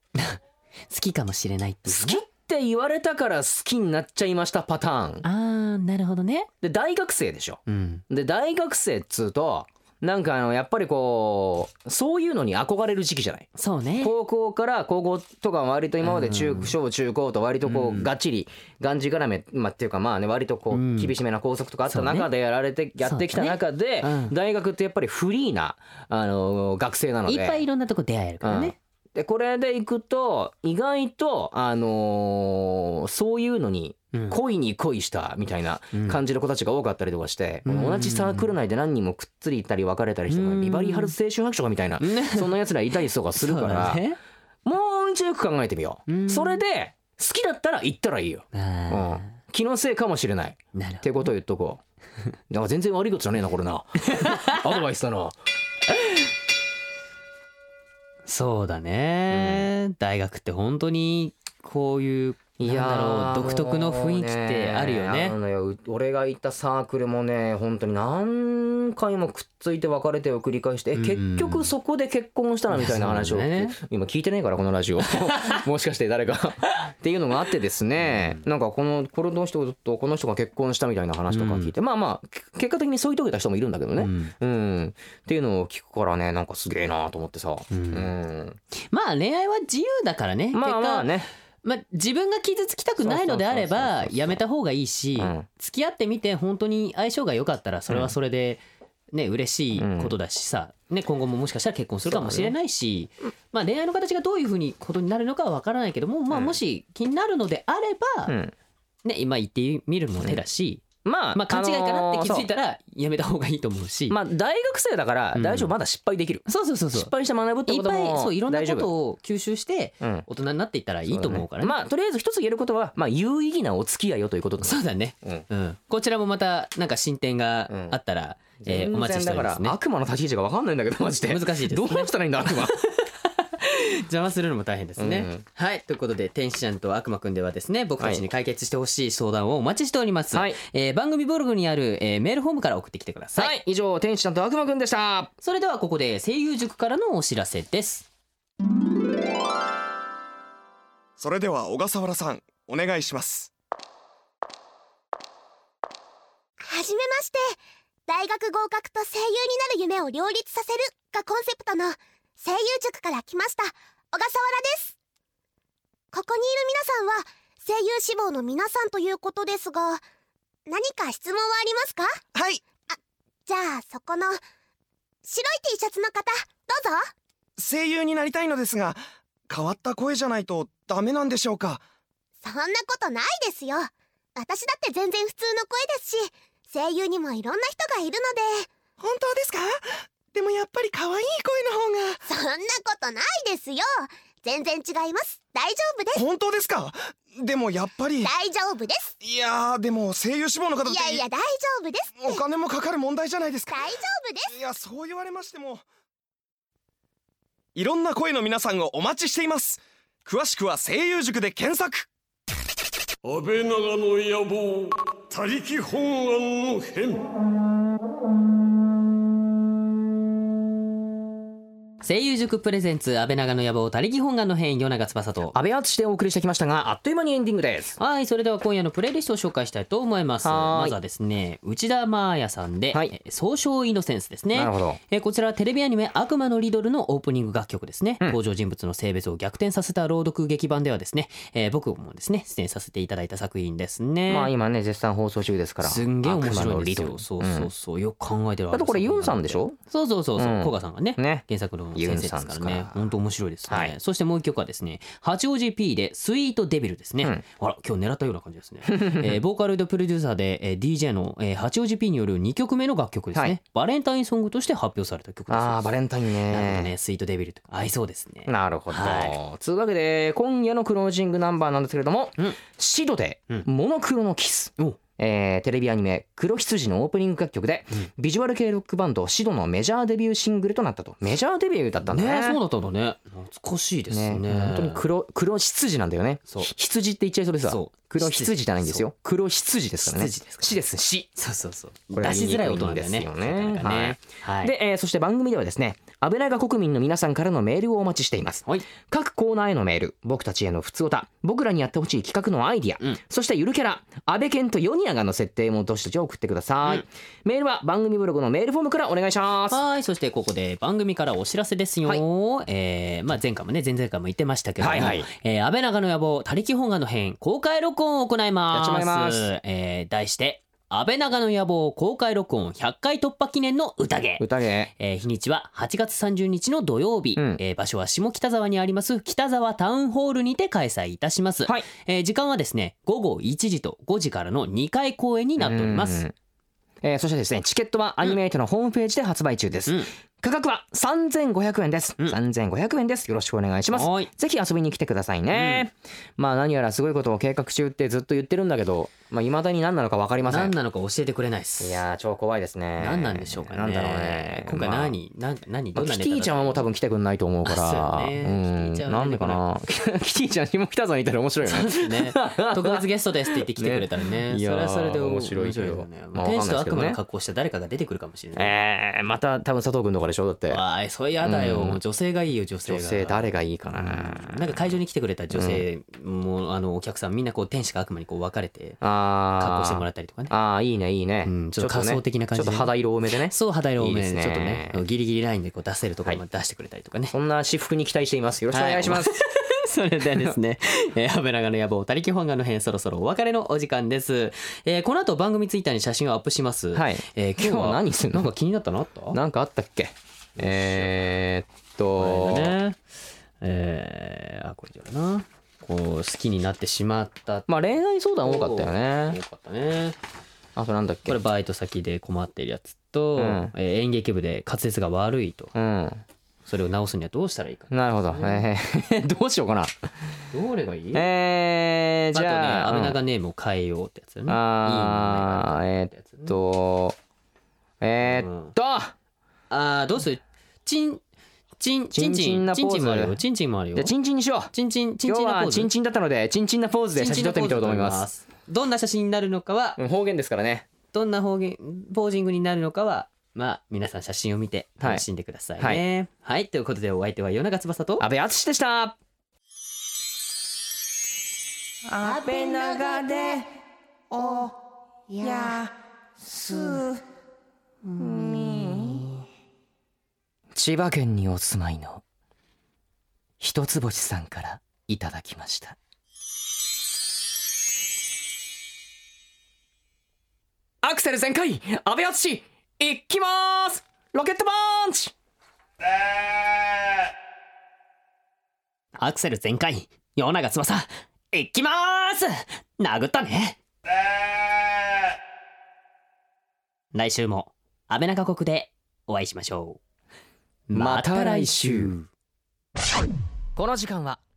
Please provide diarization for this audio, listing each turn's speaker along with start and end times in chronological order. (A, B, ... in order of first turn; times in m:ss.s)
0:00.2-0:02.2 A
0:01.9-0:05.2 B
0:05.2-0:06.5 A
0:06.6-0:27.6 B
0:07.7-0:08.0 A
0:13.6-0:14.1 A
0:16.0-0:16.7 A
0:17.6-0:18.1 A
0:20.7-0:21.2 A
0:21.9-0:22.3 A
0:23.0-0:24.3 A
0:27.3-0:28.8 A
0:28.4-0:44.0 B
0:34.1-0:34.4 A
0:35.9-0:36.2 A
0:37.6-0:38.5 A
0:40.3-0:41.2 A
0:42.0-0:42.5 A
0:43.4-0:44.2 A
0:44.6-0:51.8 B
0:46.1-0:46.6 A
0:48.5-0:49.4 A
0:50.8-0:51.1 A
0:52.5-0:55.4 B
0:54.1-0:54.6 A
0:58.3-1:05.4 A
0:59.3-0:59.7 B
1:02.6-1:28.6 B
1:11.0-1:11.7 A
1:12.7-1:13.8 A
1:18.0-1:18.4 A
1:21.3-1:21.7 A
1:24.0-1:24.3 A
1:27.7-1:28.1 A
1:28.7-1:31.1 A
1:30.5-1:31.3 B
1:31.6-1:38.6 A
1:33.0-1:34.4 B
1:35.2-1:35.5 B
1:39.1-1:48.4 A
1:39.8-1:40.1 B
1:42.1-1:42.5 B
1:46.3-1:46.6 B
1:48.3-1:48.5 B
1:49.0-1:54.2 A
1:51.0-1:52.5 B
1:54.1-1:58.9 B
1:55.4-1:55.7 A
1:56.5-1:57.1 A
1:57.7-2:01.8 A
2:00.0-2:00.3 B
2:01.1-2:05.5 B
2:04.6-2:09.8 A
2:07.7-2:08.0 B
2:08.6-2:12.8 B
2:11.3-2:23.5 A
2:15.0-2:15.4 B
2:18.0-2:18.2 B
2:20.3-2:20.6 B
2:23.4-2:25.3 B
2:25.4-2:28.1 A
2:31.2-2:33.5 C
2:36.6-2:45.0 D
2:46.1-2:50.0 D
2:50.7-2:52.2 D
2:52.3-2:52.6 C
2:52.9-2:54.4 D
2:55.2-2:57.1 D
2:57.6-3:01.8 C
3:02.4-3:08.7 D
3:09.0-3:12.2 C
3:12.3-3:16.2 D
3:16.2-3:18.3 C
3:18.2-3:19.1 D
3:19.2-3:21.2 C
3:20.9-3:22.4 D
3:22.2-3:23.9 C
3:23.7-3:24.5 D
3:24.5-3:25.9 C
3:27.8-3:32.1 C
3:33.2-3:37.2 E
3:42.0-3:45.6 A
3:45.5-3:48.0 B
3:48.0-4:04.5 A
3:50.4-3:51.0 B
3:54.5-3:55.0 B
4:04.3-4:07.7 B
4:05.8-4:25.9 A
4:08.7-4:09.8 B
4:10.4-4:13.1 B
4:13.7-4:13.9 B
4:18.9-4:19.4 B
4:25.5-4:26.9 B
4:26.5-4:29.4 A
4:28.5-4:42.6 B
4:42.1-4:45.0 A
4:44.1-4:51.3 B
4:47.6-4:49.0 A
4:50.0-4:50.8 A
4:51.4-4:54.7 A
4:52.1-5:09.8 B
5:09.7-5:24.4 A
5:14.8-5:15.3 B
5:18.7-5:19.4 B
5:24.4-5:24.9 B
5:25.0-5:36.2 A
5:27.4-5:27.6 B
5:35.6-5:36.3 B
5:37.0-5:50.7 B
5:43.9-5:44.3 A
5:45.5-5:45.8 A
5:50.5-5:52.0 A
5:51.8-5:55.2 B
5:53.0-5:56.8 A
5:56.0-6:07.2 B
5:57.6-5:59.6 A
6:01.6-6:08.7 A
6:08.6-6:10.8 B
6:10.7-6:19.0 A
6:11.4-6:12.0 B
6:12.9-6:14.7 B
6:15.5-6:15.8 B
6:19.0-6:25.0 B
6:19.6-6:20.5 A
6:21.4-6:22.9 A
6:23.5-6:27.4 A
6:27.3-6:29.4 B
6:28.7-6:39.4 A
6:36.9-6:38.5 B
6:39.3-6:42.7 B
6:42.2-6:43.0 A
6:43.6-6:47.7 A
6:47.7-6:49.4 B
6:48.4-6:50.2 A
6:50.8-6:51.4 B
6:51.3-6:55.7 A
6:53.4-6:53.7 B
6:55.8-6:56.2 B
6:56.7-6:58.6 A
6:57.9-6:59.9 B
7:00.5-7:01.3 A
7:01.1-7:03.2 B
7:02.3-7:06.6 A
7:04.5-7:07.2 B
7:08.0-7:09.1 B
7:08.2-7:08.8 A
7:09.7-7:11.2 A
7:11.8-7:14.1 A
7:12.1-7:13.4 B
7:14.0-7:14.7 B
7:14.7-7:15.9 A
7:15.2-7:18.3 B
7:17.2-7:20.0 A
7:20.0-7:20.9 B
7:21.1-7:28.3 A
7:25.8-7:26.0 B
7:28.2-7:29.2 B
7:32.1-7:33.8 B
7:35.4-7:35.8 B
7:36.5-7:37.0 B
7:38.1-7:39.3 B
7:40.7-7:42.2 B
7:43.6-7:46.0 B
7:51.0-7:55.3 B
7:59.2-8:03.8 A
8:07.1-8:10.0 A
8:10.9-8:12.3 A
8:11.0-8:12.1 B
8:13.8-8:14.4 B